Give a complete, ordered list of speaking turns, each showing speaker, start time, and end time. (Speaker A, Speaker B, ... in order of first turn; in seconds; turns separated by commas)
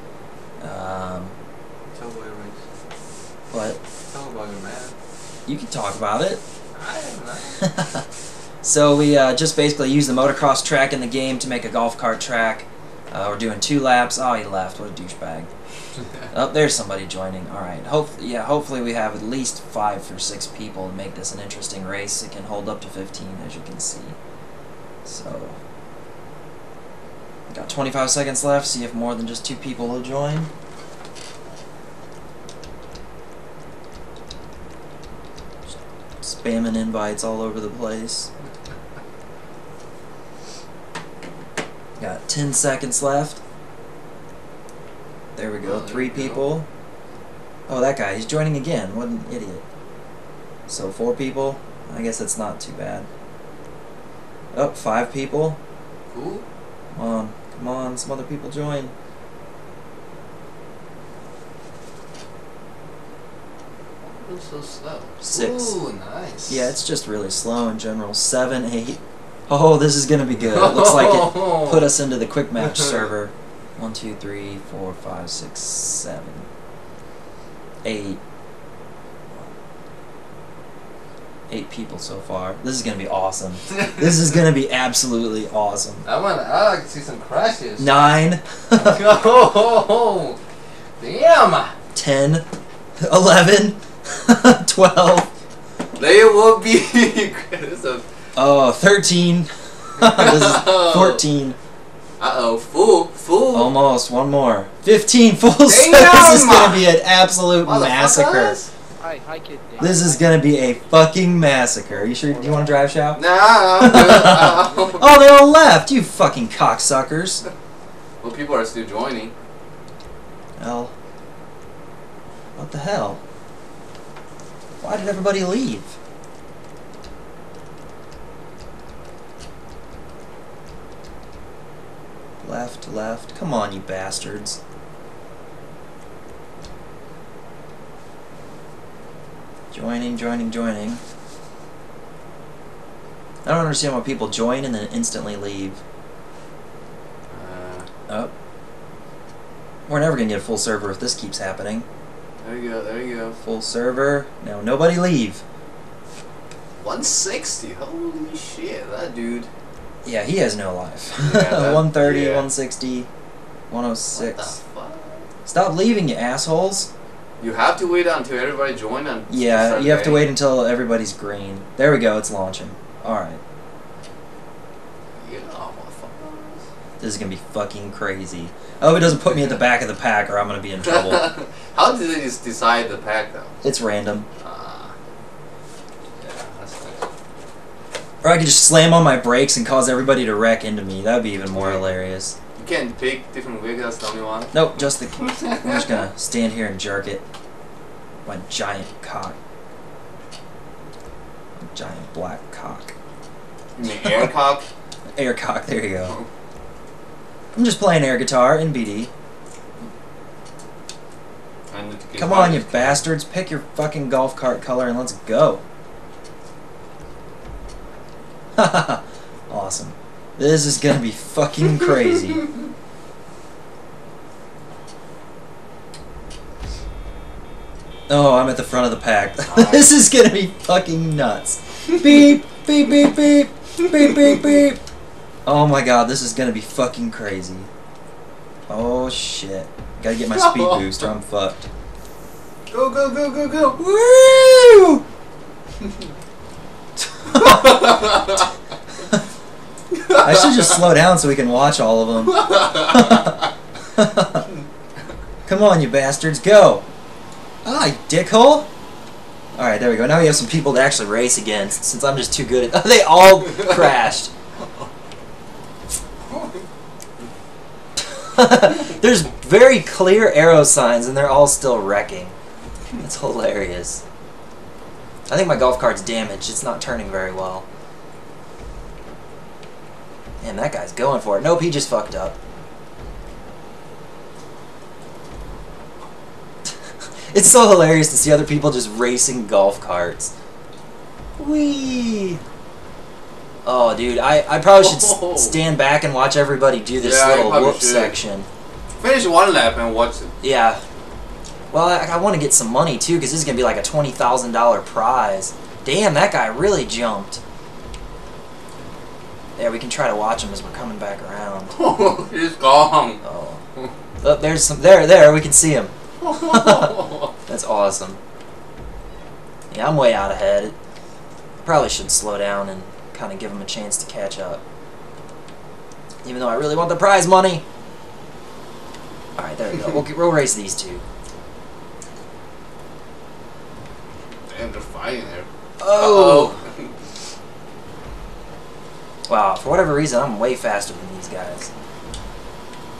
Speaker A: 0.6-1.4, Speaker B: 1.9-2.6, Speaker A: 3.5-3.8, Speaker B: 4.1-5.0, Speaker A: 5.5-6.4, Speaker B: 6.8-7.7, Speaker A: 7.6-8.1, Speaker A: 8.6-15.5, Speaker A: 16.3-24.2, Speaker A: 25.1-25.6, Speaker A: 27.5-30.5, Speaker A: 35.7-38.3, Speaker A: 42.0-43.4, Speaker A: 45.4-46.7, Speaker B: 45.6-46.5, Speaker A: 47.7-49.6, Speaker A: 50.7-53.1, Speaker A: 54.5-55.6, Speaker B: 56.1-56.5, Speaker A: 57.0-58.9, Speaker B: 64.0-66.7, Speaker A: 65.2-65.8, Speaker A: 66.5-76.5, Speaker B: 70.5-71.9, Speaker B: 72.6-73.1, Speaker A: 77.8-78.2, Speaker A: 81.5-86.0, Speaker B: 86.0-88.0, Speaker A: 87.8-89.0, Speaker B: 88.7-90.4, Speaker B: 91.0-91.8, Speaker A: 91.9-92.4, Speaker A: 93.0-95.3, Speaker B: 96.0-98.1, Speaker A: 98.3-101.6, Speaker B: 100.0-101.2, Speaker B: 102.2-103.8, Speaker A: 103.5-108.6, Speaker B: 105.7-106.9, Speaker B: 107.6-108.7, Speaker C: 109.0-110.5, Speaker A: 109.8-113.2, Speaker C: 112.0-112.8, Speaker B: 113.2-115.1, Speaker A: 113.8-117.4, Speaker B: 118.2-119.3, Speaker A: 120.6-120.9, Speaker A: 122.6-123.2, Speaker A: 124.8-126.0, Speaker A: 132.4-134.6, Speaker A: 139.7-141.0, Speaker A: 143.4-145.8, Speaker B: 147.3-147.9, Speaker A: 149.9-151.9, Speaker B: 152.4-153.4, Speaker A: 153.4-155.4, Speaker B: 156.8-159.5, Speaker A: 160.0-163.1, Speaker B: 161.2-162.5, Speaker A: 163.7-164.6, Speaker B: 164.1-165.2, Speaker A: 165.5-166.9, Speaker B: 167.4-170.3, Speaker A: 169.3-173.4, Speaker B: 175.2-176.6, Speaker A: 177.0-181.3, Speaker B: 180.8-183.6, Speaker A: 183.6-184.3, Speaker B: 184.4-184.9, Speaker B: 186.2-187.1, Speaker A: 188.2-192.4, Speaker B: 191.4-191.9, Speaker B: 192.6-194.5, Speaker A: 194.5-197.2, Speaker B: 195.2-195.9, Speaker A: 198.2-199.4, Speaker A: 201.6-202.9, Speaker B: 203.8-204.7, Speaker A: 204.0-204.3, Speaker A: 205.2-206.2, Speaker A: 207.5-209.1, Speaker B: 211.7-213.1, Speaker A: 212.2-215.6, Speaker A: 218.6-222.5, Speaker A: 228.1-234.8, Speaker B: 229.5-229.9, Speaker A: 235.4-237.7, Speaker A: 238.7-241.7, Speaker B: 240.3-240.9, Speaker B: 242.7-243.8, Speaker A: 243.8-245.0, Speaker A: 247.2-247.9, Speaker B: 247.3-248.5, Speaker B: 249.9-250.8, Speaker A: 250.1-253.4, Speaker B: 252.3-253.4, Speaker A: 253.9-254.5, Speaker A: 255.4-256.8, Speaker A: 257.6-258.7, Speaker A: 259.6-264.3, Speaker A: 268.1-272.4, Speaker A: 273.0-274.0, Speaker A: 275.3-277.7, Speaker A: 280.4-282.4, Speaker A: 287.3-290.3, Speaker A: 291.4-292.4, Speaker A: 293.6-298.5, Speaker B: 294.7-295.6, Speaker B: 297.0-298.2, Speaker B: 299.0-300.3, Speaker A: 300.4-300.8, Speaker A: 301.7-307.4, Speaker A: 309.6-311.8, Speaker B: 311.7-313.2, Speaker A: 313.2-313.6, Speaker A: 314.2-318.2, Speaker B: 316.2-317.3, Speaker A: 319.7-320.8, Speaker A: 321.6-324.6, Speaker A: 326.2-327.6, Speaker A: 329.4-331.0, Speaker B: 334.5-336.9, Speaker A: 335.8-336.6, Speaker A: 339.3-341.7